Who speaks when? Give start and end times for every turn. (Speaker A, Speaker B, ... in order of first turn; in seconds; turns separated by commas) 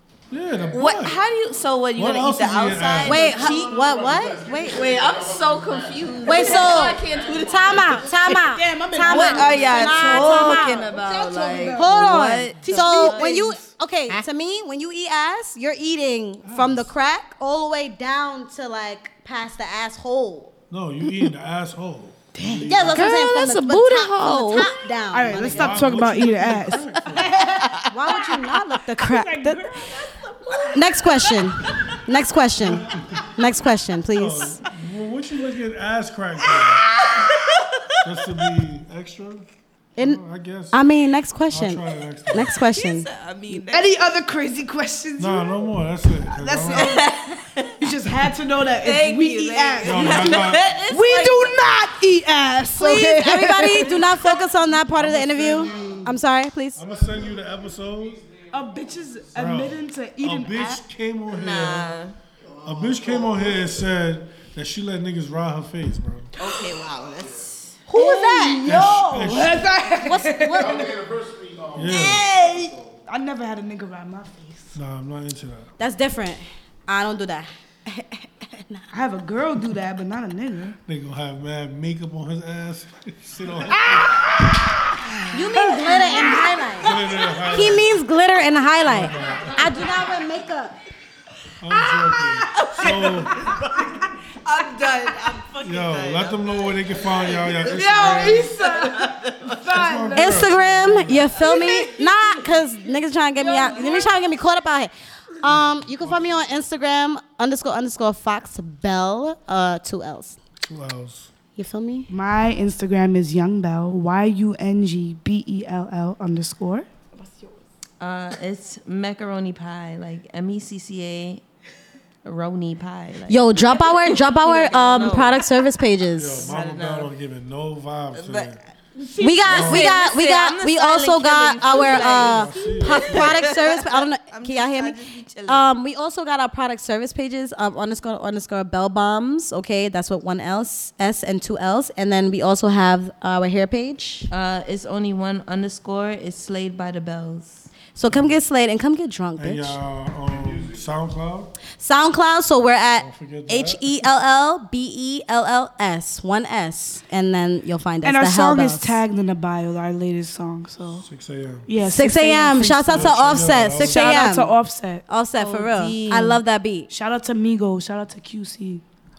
Speaker A: 0.3-1.2, Speaker B: 0.7-3.9, Speaker A: 1.9-3.4, Speaker C: 3.0-8.2, Speaker D: 3.0-4.8, Speaker B: 4.6-8.4, Speaker D: 6.2-10.9, Speaker E: 6.3-6.8, Speaker E: 8.2-13.6, Speaker B: 9.1-14.2, Speaker D: 11.8-20.5, Speaker A: 16.4-16.9, Speaker A: 20.7-23.1, Speaker E: 22.3-22.8, Speaker D: 22.7-25.9, Speaker B: 22.9-24.7, Speaker E: 25.1-27.8, Speaker A: 25.3-27.3, Speaker B: 27.6-28.2, Speaker D: 27.9-29.6, Speaker E: 29.0-31.0, Speaker B: 30.0-31.9, Speaker D: 30.7-34.6, Speaker A: 32.6-33.3, Speaker A: 34.1-36.9, Speaker B: 36.9-37.8, Speaker A: 38.0-40.8, Speaker D: 40.7-43.1, Speaker A: 41.5-42.5, Speaker B: 42.7-43.9, Speaker E: 43.5-45.7, Speaker A: 45.2-47.0, Speaker E: 46.2-47.1, Speaker B: 46.7-47.8, Speaker E: 47.8-54.1, Speaker B: 48.8-51.6, Speaker A: 49.8-50.7, Speaker D: 52.8-56.8, Speaker B: 53.2-54.4, Speaker A: 54.9-56.1, Speaker A: 56.7-58.2, Speaker E: 58.5-60.8, Speaker A: 59.3-61.9, Speaker B: 61.3-62.1, Speaker C: 62.4-63.8, Speaker A: 62.6-66.3, Speaker B: 66.4-67.8, Speaker C: 67.1-67.5, Speaker E: 67.9-70.9, Speaker D: 67.9-68.6, Speaker A: 68.6-69.6, Speaker D: 70.0-70.9, Speaker C: 70.5-73.0, Speaker A: 71.7-72.3, Speaker E: 71.8-74.8, Speaker A: 74.7-75.7, Speaker D: 75.8-78.9, Speaker E: 78.9-80.8, Speaker A: 80.9-84.4, Speaker E: 83.7-87.5, Speaker D: 85.3-90.8, Speaker A: 86.8-88.0, Speaker A: 88.8-89.9, Speaker A: 91.6-93.5, Speaker E: 91.8-94.1, Speaker B: 92.5-99.7, Speaker A: 95.6-98.5, Speaker E: 97.6-100.5, Speaker A: 99.7-101.3, Speaker D: 100.1-110.4, Speaker B: 101.4-102.3, Speaker E: 101.4-101.9, Speaker B: 103.3-104.3, Speaker A: 105.5-106.2, Speaker A: 110.6-111.3, Speaker D: 111.5-112.1, Speaker E: 112.1-116.9, Speaker B: 118.0-121.4, Speaker B: 122.2-125.5, Speaker D: 123.3-126.5, Speaker A: 126.1-128.6, Speaker B: 126.4-127.1, Speaker B: 128.1-128.5, Speaker E: 128.9-129.7, Speaker D: 129.2-144.3, Speaker B: 129.2-135.7, Speaker A: 129.5-129.9, Speaker A: 131.9-133.5, Speaker B: 144.3-147.7, Speaker D: 147.9-149.8, Speaker A: 148.1-148.4, Speaker A: 149.4-151.5, Speaker C: 150.2-150.8, Speaker D: 151.8-159.0, Speaker A: 153.0-153.8, Speaker E: 158.0-161.0, Speaker A: 161.0-161.7, Speaker E: 161.7-163.2, Speaker D: 161.9-164.5, Speaker A: 162.9-164.2, Speaker E: 163.8-165.0, Speaker D: 165.1-166.9, Speaker B: 165.3-166.4, Speaker E: 166.9-168.8